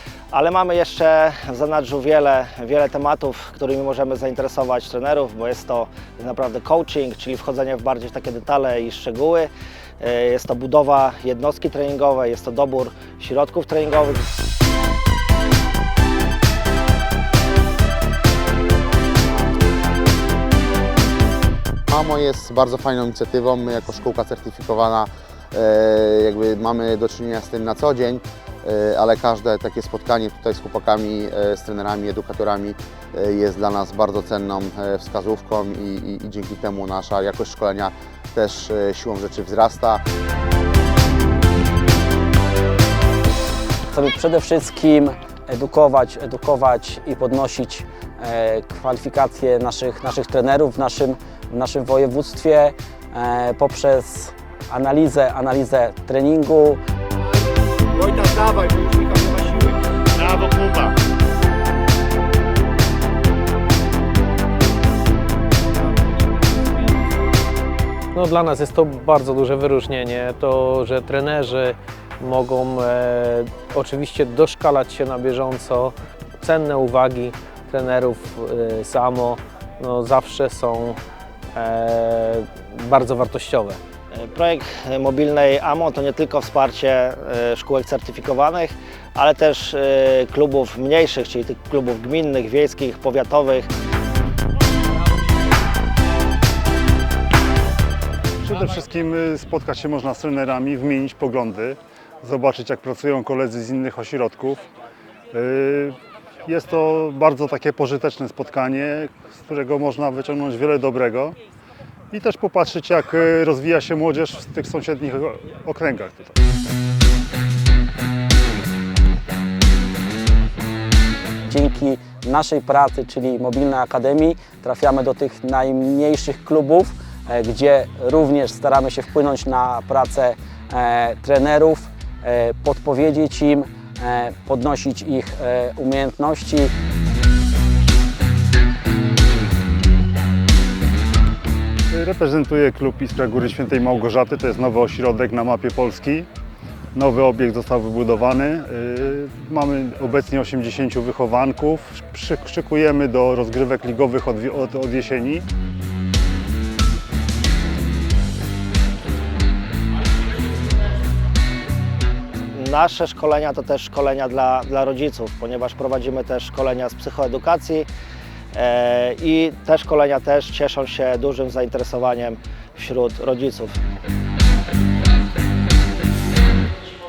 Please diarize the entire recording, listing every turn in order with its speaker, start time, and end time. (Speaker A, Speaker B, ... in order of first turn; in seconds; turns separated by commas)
Speaker A: 0.3-14.3, Speaker B: 21.9-40.0, Speaker C: 43.9-56.8, Speaker D: 57.9-61.0, Speaker E: 68.1-81.0, Speaker E: 81.5-83.8, Speaker A: 84.1-93.7, Speaker F: 98.4-104.7, Speaker F: 105.3-111.4, Speaker F: 112.1-116.4, Speaker C: 121.5-136.7, Speaker F: 141.9-146.3, Speaker F: 146.9-155.4, Speaker A: 162.5-167.9, Speaker A: 168.5-173.8